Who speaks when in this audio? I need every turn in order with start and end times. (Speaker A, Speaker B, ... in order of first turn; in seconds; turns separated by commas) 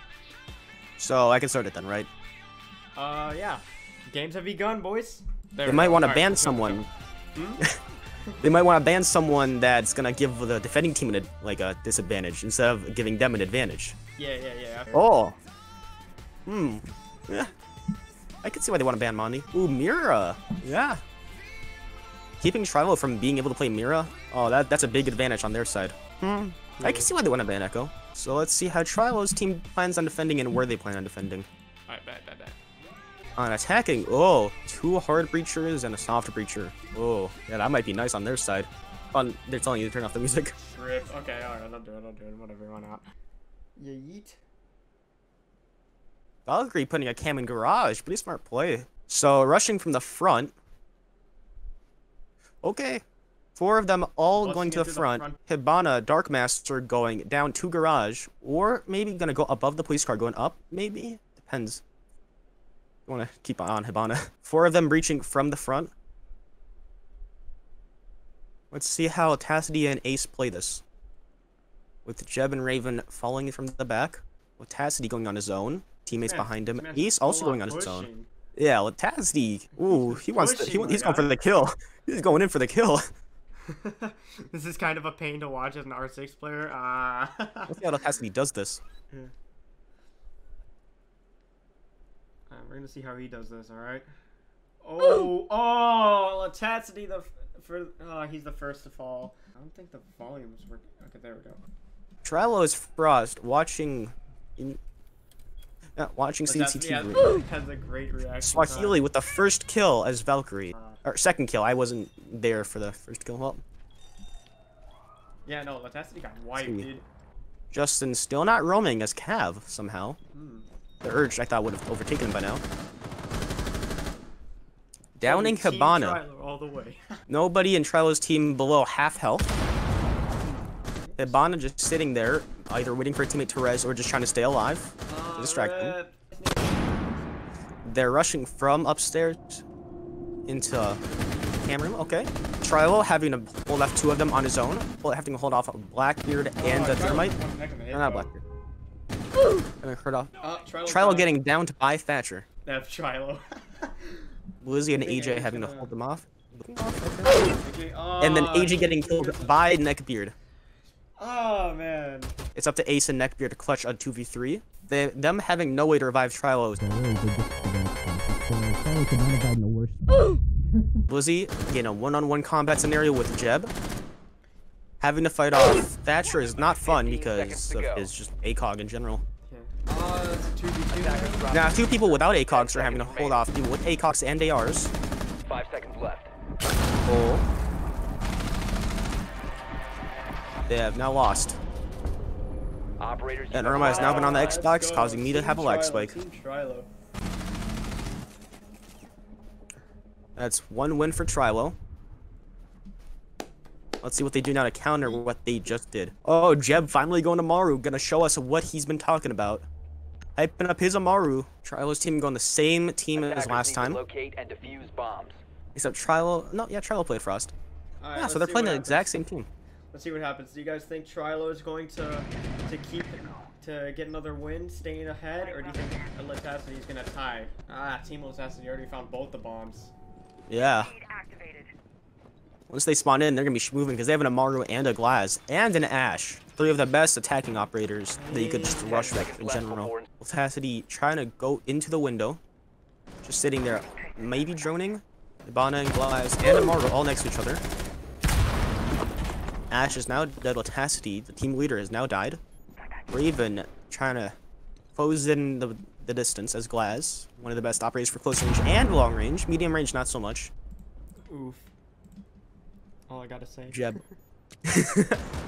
Speaker A: 1.0-2.1, Speaker B: 2.9-6.8, Speaker A: 5.6-6.9, Speaker B: 7.3-7.6, Speaker A: 8.4-13.9, Speaker B: 14.2-15.0, Speaker A: 14.9-15.3, Speaker A: 16.4-17.5, Speaker A: 18.4-21.0, Speaker A: 22.4-31.5, Speaker B: 26.7-27.1, Speaker B: 31.9-32.6, Speaker A: 33.4-40.5, Speaker B: 40.6-43.0, Speaker B: 43.8-44.4, Speaker A: 46.5-50.5, Speaker A: 52.6-53.0, Speaker A: 53.5-61.8, Speaker B: 54.4-55.4, Speaker A: 63.1-65.9, Speaker A: 68.7-70.8, Speaker A: 72.0-83.0, Speaker B: 76.2-78.3, Speaker B: 79.8-81.3, Speaker B: 83.6-87.8, Speaker A: 87.7-88.8, Speaker B: 92.5-94.1, Speaker B: 94.8-101.6, Speaker A: 102.2-104.8, Speaker A: 106.0-107.3, Speaker B: 106.4-109.0, Speaker A: 108.4-113.6, Speaker B: 110.7-111.0, Speaker B: 115.4-117.0, Speaker A: 116.5-116.9, Speaker A: 117.7-120.2, Speaker B: 120.3-120.7, Speaker A: 121.0-122.6, Speaker A: 125.2-126.2, Speaker B: 125.2-127.2, Speaker A: 127.3-129.5, Speaker B: 130.4-131.4, Speaker A: 131.2-135.9, Speaker B: 135.1-137.2, Speaker A: 137.8-139.6, Speaker A: 140.5-141.0, Speaker A: 141.6-147.3, Speaker B: 146.6-148.3, Speaker A: 147.9-148.4, Speaker A: 149.8-150.3, Speaker B: 150.4-151.3, Speaker A: 150.8-152.4, Speaker B: 152.6-154.3, Speaker A: 154.6-157.4, Speaker B: 154.9-155.9, Speaker B: 157.6-159.8, Speaker A: 158.2-160.3, Speaker B: 161.2-162.3, Speaker A: 162.5-170.2, Speaker A: 171.1-173.7, Speaker A: 175.0-179.2, Speaker C: 176.8-178.1, Speaker B: 179.4-181.4, Speaker C: 180.9-183.5, Speaker A: 181.5-184.9, Speaker C: 185.4-186.3, Speaker A: 187.1-187.4, Speaker A: 190.7-191.6, Speaker C: 193.0-194.6, Speaker A: 193.5-196.2, Speaker B: 193.7-196.9, Speaker A: 200.3-201.8, Speaker A: 204.0-209.6, Speaker A: 210.3-214.0, Speaker C: 213.1-215.4, Speaker A: 215.7-217.5, Speaker B: 218.0-219.1, Speaker A: 218.2-219.5, Speaker B: 219.9-229.9, Speaker A: 230.5-230.9, Speaker A: 232.7-242.4, Speaker B: 238.1-239.2, Speaker C: 239.0-240.1, Speaker A: 243.2-247.6, Speaker A: 249.7-252.4, Speaker A: 253.1-254.3, Speaker A: 254.9-260.5, Speaker B: 261.3-261.7, Speaker B: 263.1-264.0, Speaker A: 263.7-264.0, Speaker A: 264.6-265.2